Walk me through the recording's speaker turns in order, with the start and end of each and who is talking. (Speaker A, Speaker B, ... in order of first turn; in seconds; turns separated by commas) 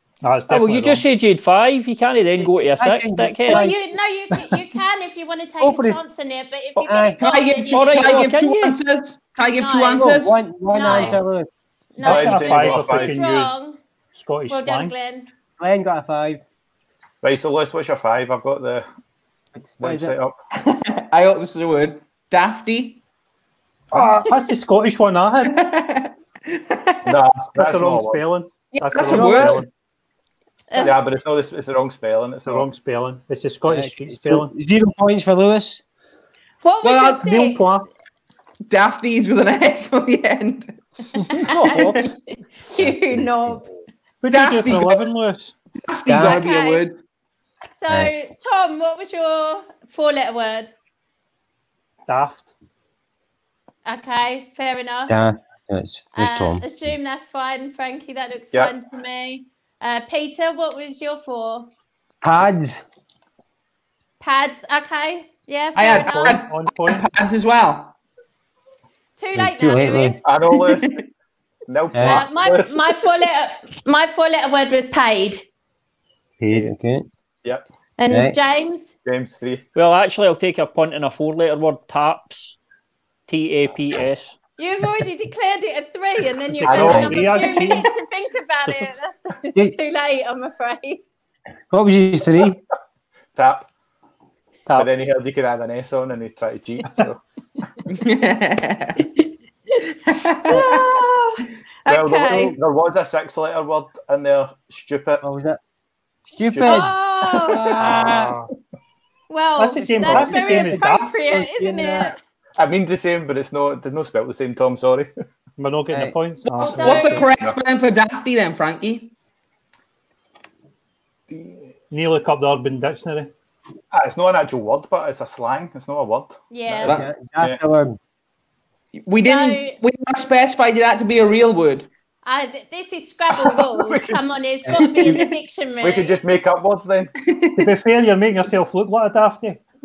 Speaker A: 0.2-1.0, Speaker B: 0.5-3.7, Speaker C: 2.8-3.8, Speaker D: 3.5-8.3, Speaker C: 5.6-6.0, Speaker C: 6.9-7.2, Speaker E: 7.2-10.4, Speaker B: 7.7-8.8, Speaker D: 9.6-10.1, Speaker C: 10.0-11.5, Speaker D: 10.7-11.2, Speaker D: 12.0-13.8, Speaker A: 12.0-13.6, Speaker F: 12.0-13.3, Speaker A: 14.1-14.9, Speaker D: 14.5-15.3, Speaker C: 15.6-16.4, Speaker F: 17.2-18.9, Speaker C: 19.6-20.2, Speaker F: 19.8-20.4, Speaker E: 20.6-23.0, Speaker A: 23.9-25.7, Speaker D: 24.0-24.3, Speaker E: 25.5-27.0, Speaker F: 27.1-28.2, Speaker A: 27.6-29.7, Speaker E: 28.7-29.6, Speaker C: 29.1-29.6, Speaker D: 30.7-31.0, Speaker F: 30.8-32.7, Speaker A: 32.4-34.5, Speaker C: 33.7-35.8, Speaker D: 36.6-37.9, Speaker E: 36.8-37.2, Speaker A: 37.1-37.9, Speaker E: 38.7-40.8, Speaker B: 41.4-42.1, Speaker D: 41.4-43.7, Speaker E: 41.5-42.0, Speaker C: 42.8-43.6, Speaker A: 44.2-45.5, Speaker E: 44.3-45.0, Speaker E: 45.9-47.0, Speaker C: 46.1-46.4, Speaker D: 46.2-46.9, Speaker D: 47.8-50.7, Speaker A: 52.1-52.5, Speaker D: 53.9-55.2, Speaker C: 55.1-56.6, Speaker D: 56.1-61.7, Speaker C: 62.2-62.8, Speaker D: 64.2-66.4, Speaker E: 65.8-68.0, Speaker A: 65.9-67.1, Speaker D: 69.2-70.3, Speaker C: 69.3-70.2, Speaker F: 70.2-71.0, Speaker F: 71.7-73.0, Speaker C: 71.9-72.3, Speaker D: 72.0-75.5, Speaker C: 76.4-77.1, Speaker D: 78.0-78.9, Speaker C: 78.1-78.4, Speaker F: 79.0-79.6, Speaker B: 79.8-82.6, Speaker B: 83.3-84.4, Speaker D: 84.6-91.0, Speaker A: 86.6-87.9, Speaker F: 86.7-87.4, Speaker C: 86.8-87.2, Speaker B: 88.7-88.9, Speaker C: 91.7-92.6, Speaker F: 93.4-93.7, Speaker F: 94.8-97.2, Speaker E: 97.9-99.0, Speaker E: 100.1-100.9, Speaker D: 100.5-102.6, Speaker F: 101.9-105.2, Speaker C: 105.2-105.6, Speaker C: 106.3-106.9, Speaker F: 106.4-106.9, Speaker D: 106.6-108.1, Speaker C: 107.5-108.4, Speaker F: 107.8-108.3, Speaker D: 109.3-112.2, Speaker A: 109.6-111.1, Speaker C: 109.8-112.1, Speaker F: 112.6-115.1, Speaker A: 115.6-117.2, Speaker E: 116.5-119.1, Speaker D: 116.6-117.3, Speaker F: 121.3-121.6, Speaker A: 121.9-123.3, Speaker F: 123.9-127.6, Speaker D: 126.5-127.0, Speaker C: 126.8-128.0, Speaker E: 129.0-131.9, Speaker D: 129.2-129.8, Speaker D: 132.2-136.2, Speaker F: 133.3-134.2, Speaker C: 134.7-135.1, Speaker F: 135.8-137.1, Speaker E: 137.3-137.7, Speaker A: 137.6-139.6